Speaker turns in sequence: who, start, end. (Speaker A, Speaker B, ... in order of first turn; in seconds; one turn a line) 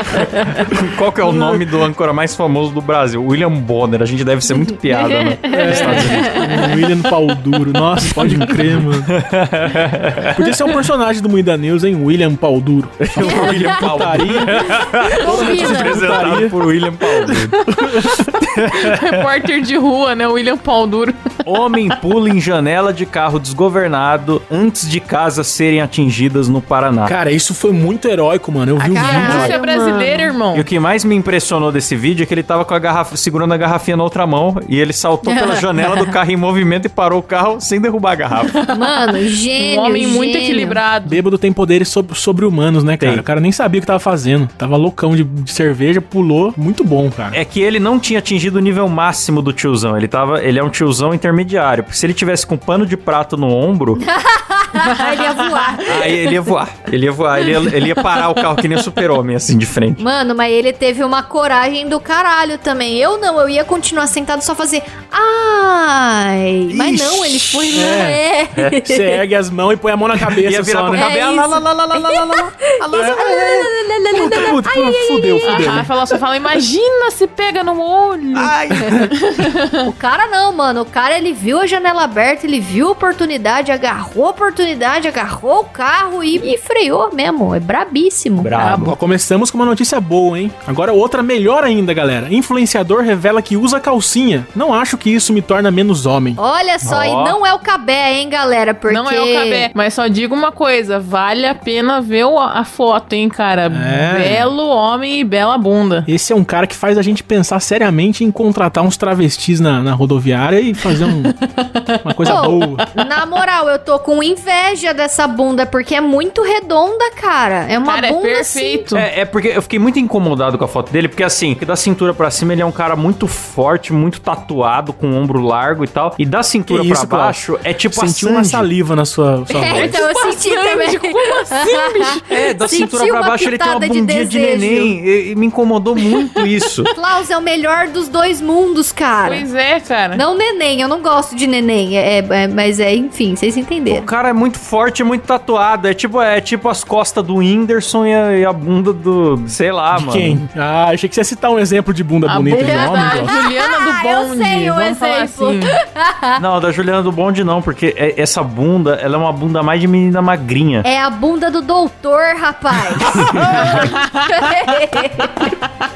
Speaker A: 0.7-6.4
Speaker B: 5.5-9.1
Speaker C: 5.8-6.7
Speaker A: 9.1-10.6
Speaker B: 10.3-16.6
Speaker A: 13.0-17.7
Speaker C: 13.2-13.9
Speaker D: 15.2-15.9
Speaker C: 15.2-15.8
Speaker B: 17.3-18.2
Speaker A: 18.3-19.0
Speaker D: 18.7-21.3
Speaker A: 21.4-27.2
Speaker B: 27.1-29.5
Speaker C: 28.8-30.3
Speaker D: 29.0-30.7
Speaker A: 29.2-29.6
Speaker A: 30.5-38.6
Speaker C: 35.2-36.1
Speaker D: 38.5-39.0
Speaker C: 38.7-40.8
Speaker D: 39.6-41.2
Speaker B: 41.0-47.4
Speaker A: 43.0-43.2
Speaker A: 47.3-54.0
Speaker C: 54.0-56.3
Speaker A: 55.8-60.0
Speaker C: 60.0-69.2
Speaker B: 66.7-68.2
Speaker B: 68.9-71.1
Speaker A: 70.2-73.6
Speaker C: 70.9-75.8
Speaker B: 72.9-75.9
Speaker D: 75.5-78.5
Speaker A: 78.4-78.9
Speaker D: 79.3-79.7
Speaker C: 79.8-88.6
Speaker A: 88.4-89.0
Speaker B: 88.7-96.4
Speaker C: 96.4-99.7
Speaker A: 96.8-97.4
Speaker D: 98.9-106.1
Speaker B: 103.7-104.5
Speaker B: 106.1-111.4
Speaker D: 111.1-112.5
Speaker B: 112.0-112.8
Speaker C: 112.2-118.8
Speaker D: 117.8-119.1
Speaker A: 118.9-128.7
Speaker B: 126.7-130.0
Speaker C: 129.5-135.0
Speaker D: 129.8-132.2
Speaker A: 132.3-136.9
Speaker C: 136.9-139.5
Speaker D: 139.2-140.2
Speaker C: 140.1-144.1
Speaker A: 143.9-150.4
Speaker B: 149.9-153.3
Speaker D: 152.2-155.8
Speaker C: 152.5-156.4
Speaker A: 156.4-160.9
Speaker C: 160.8-165.5
Speaker B: 163.0-163.9
Speaker A: 163.2-163.6
Speaker D: 163.6-164.5